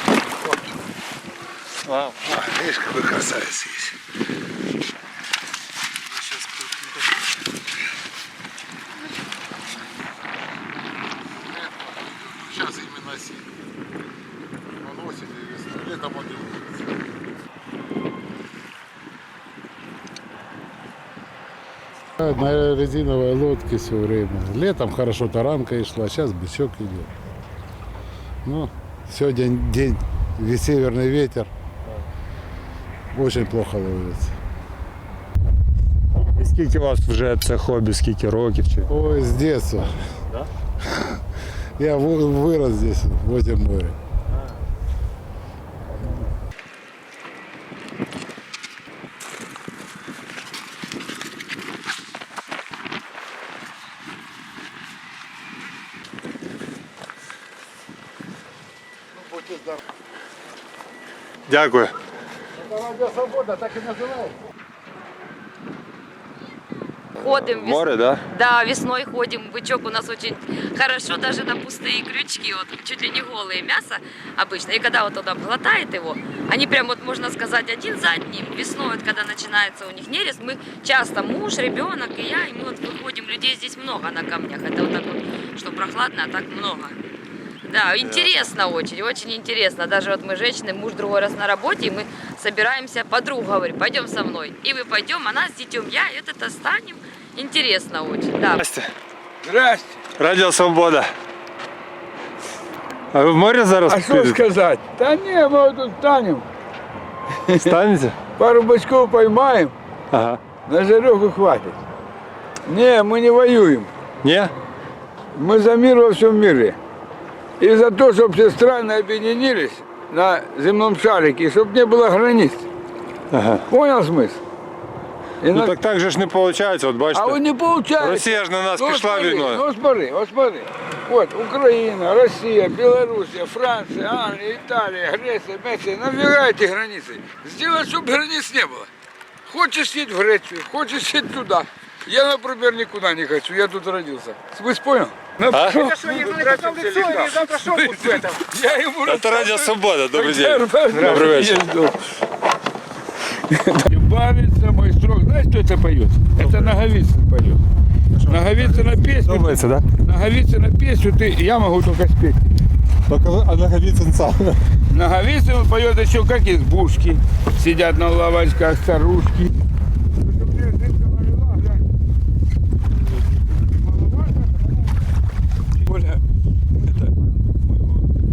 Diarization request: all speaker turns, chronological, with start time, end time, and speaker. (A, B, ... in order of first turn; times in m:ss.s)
0:01.9-0:02.4 A
0:02.4-0:03.9 B
0:11.7-0:13.4 C
0:14.8-0:16.8 C
0:22.2-0:27.1 C
0:28.4-0:31.5 C
0:33.1-0:34.3 C
0:36.2-0:38.9 A
0:38.9-0:39.9 C
0:41.8-0:44.0 C
1:01.5-1:01.9 A
1:02.7-1:04.3 C
1:07.2-1:27.0 D
1:07.6-1:08.2 A
1:27.6-1:38.6 D
1:38.6-1:38.9 A
1:39.4-1:40.0 B
1:40.2-1:41.1 A
1:43.1-1:44.4 A
1:43.9-1:46.4 B
1:47.5-1:47.8 B
1:47.5-1:48.2 A
1:48.4-1:49.7 B
1:50.1-1:50.4 A
1:50.7-1:51.8 B
1:52.7-1:53.9 B
1:54.2-1:54.5 A
1:55.4-1:56.8 B
1:57.6-2:02.6 B
2:03.3-2:03.6 A
2:03.7-2:04.4 B
2:05.4-2:05.8 B
2:05.5-2:07.4 A
2:07.1-2:18.9 B
2:08.0-2:09.6 A
2:19.4-2:32.0 B
2:25.5-2:25.8 A
2:26.1-2:27.8 C
2:29.0-2:31.7 A
2:33.3-2:37.6 B
2:36.4-2:36.7 A
2:38.2-2:39.8 A
2:38.2-2:42.6 B
2:43.1-2:44.6 A
2:44.9-2:49.5 B
2:50.2-2:51.8 B
2:53.4-2:54.7 B
2:55.8-2:56.2 B
2:56.8-2:58.0 B